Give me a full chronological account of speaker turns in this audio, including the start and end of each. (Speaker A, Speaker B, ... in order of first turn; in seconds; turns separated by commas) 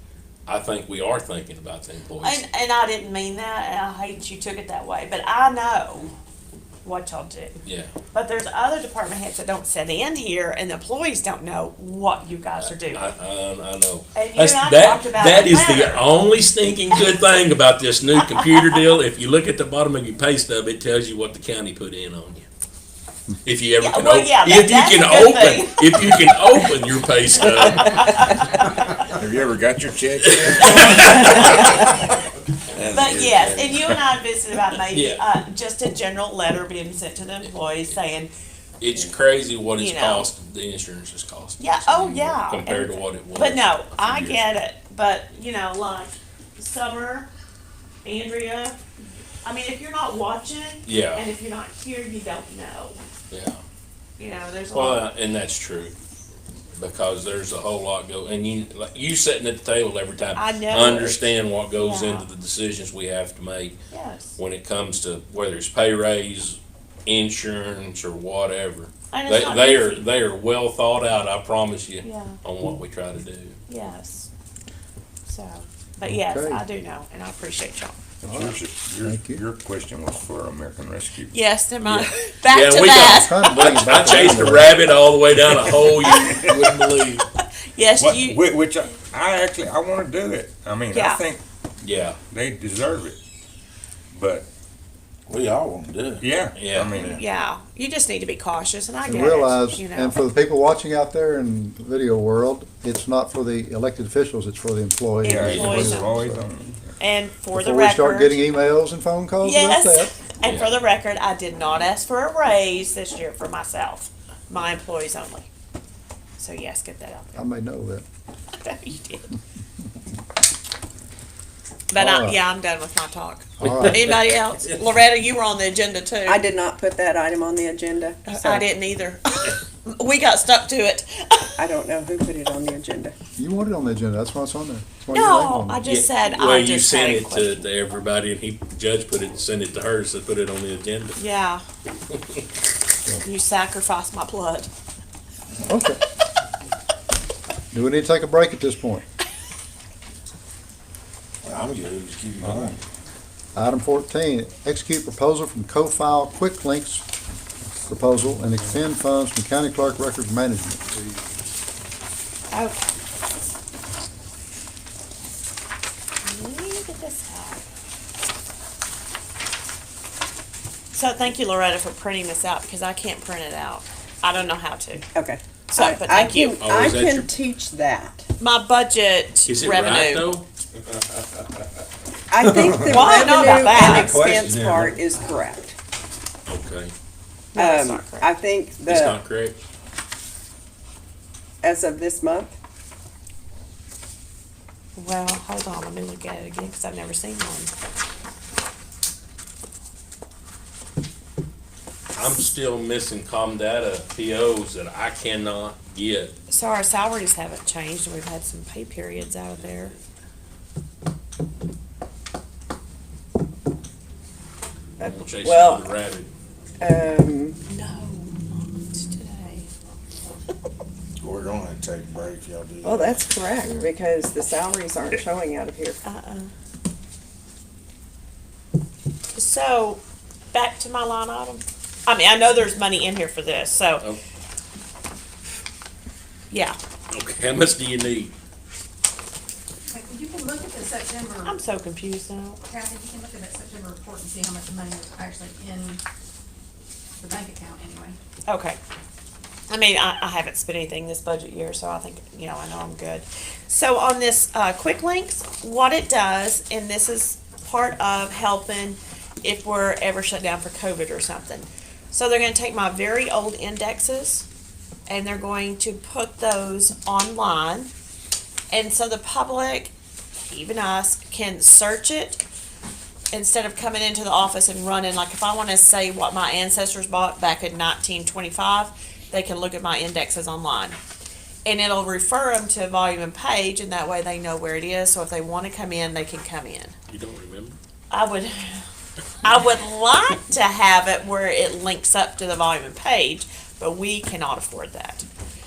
Speaker A: 0.5-2.4, Speaker B: 2.2-6.1, Speaker B: 6.8-7.6, Speaker A: 7.6-7.9, Speaker B: 8.1-13.1, Speaker A: 12.7-22.5, Speaker B: 14.2-16.1, Speaker B: 18.2-18.8, Speaker A: 23.4-28.5, Speaker B: 23.8-26.9, Speaker B: 27.4-29.1, Speaker C: 29.1-32.0, Speaker A: 30.2-31.7, Speaker B: 30.6-32.1, Speaker C: 32.8-34.0, Speaker B: 32.8-38.3, Speaker A: 34.9-35.2, Speaker A: 37.4-38.0, Speaker A: 38.8-44.5, Speaker B: 39.8-40.3, Speaker B: 41.6-47.3, Speaker B: 48.0-48.8, Speaker B: 49.5-53.0, Speaker A: 50.9-51.2, Speaker A: 53.3-53.6, Speaker B: 54.2-55.1, Speaker A: 54.7-55.9, Speaker A: 56.8-63.8, Speaker B: 60.4-62.3, Speaker B: 63.9-64.4, Speaker A: 64.4-73.6, Speaker B: 69.1-70.1, Speaker B: 72.0-72.4, Speaker B: 73.7-74.3, Speaker B: 75.3-78.0, Speaker D: 76.0-76.6, Speaker D: 78.2-79.4, Speaker C: 78.2-81.4, Speaker B: 81.3-83.6, Speaker A: 81.8-87.2, Speaker D: 83.0-84.8, Speaker B: 85.7-86.5, Speaker C: 86.1-86.6, Speaker B: 87.7-88.4, Speaker C: 88.0-91.4, Speaker B: 90.9-91.3, Speaker A: 91.8-92.2, Speaker C: 92.3-93.2, Speaker C: 94.1-94.5, Speaker E: 95.3-96.3, Speaker C: 96.2-97.2, Speaker A: 96.5-96.9, Speaker E: 96.9-97.2, Speaker B: 96.9-100.2, Speaker D: 99.0-106.4, Speaker B: 105.2-106.4, Speaker C: 105.2-107.0, Speaker A: 105.5-105.8, Speaker B: 107.0-108.4, Speaker D: 107.5-110.2, Speaker B: 109.4-115.5, Speaker A: 110.4-110.7, Speaker B: 116.4-117.4, Speaker D: 117.3-118.0, Speaker B: 118.6-119.3, Speaker B: 121.9-126.4, Speaker D: 122.0-122.4, Speaker D: 123.6-124.1, Speaker A: 123.6-124.2, Speaker F: 126.3-128.7, Speaker B: 128.3-131.5, Speaker F: 131.6-133.1, Speaker D: 133.4-135.9, Speaker B: 135.1-137.7, Speaker A: 135.9-141.2, Speaker B: 141.2-141.6, Speaker B: 143.2-144.7, Speaker D: 145.7-146.0, Speaker D: 147.7-149.0, Speaker E: 151.4-152.8, Speaker C: 152.4-152.7, Speaker D: 153.6-157.1, Speaker D: 157.9-160.8, Speaker B: 162.5-162.8, Speaker B: 166.2-167.6, Speaker B: 170.9-175.1, Speaker F: 175.1-178.3, Speaker B: 175.7-176.6, Speaker A: 176.6-177.3, Speaker B: 178.4-180.4, Speaker A: 179.5-180.5, Speaker F: 182.3-185.8, Speaker B: 182.7-184.4, Speaker C: 182.8-184.9, Speaker A: 186.5-186.9, Speaker B: 187.5-188.3, Speaker F: 187.6-189.2, Speaker A: 188.9-189.6, Speaker F: 191.6-192.6, Speaker B: 195.0-197.7, Speaker A: 202.2-206.3, Speaker B: 206.5-209.9, Speaker F: 215.0-215.9, Speaker A: 215.0-216.3, Speaker F: 216.8-217.6, Speaker B: 217.7-219.7, Speaker E: 221.2-223.2, Speaker F: 222.8-226.0, Speaker B: 226.1-226.5, Speaker B: 229.3-230.0, Speaker B: 230.5-234.1, Speaker B: 236.5-236.8, Speaker A: 237.1-238.3, Speaker G: 239.9-241.6, Speaker B: 241.4-242.6, Speaker G: 242.7-246.0, Speaker G: 247.2-248.2, Speaker B: 248.5-248.8, Speaker B: 249.7-264.5, Speaker B: 265.1-267.9, Speaker B: 268.7-269.9, Speaker B: 270.5-272.5, Speaker B: 273.3-281.0, Speaker B: 281.7-286.9, Speaker A: 287.1-287.8, Speaker B: 288.1-288.8, Speaker B: 289.4-295.3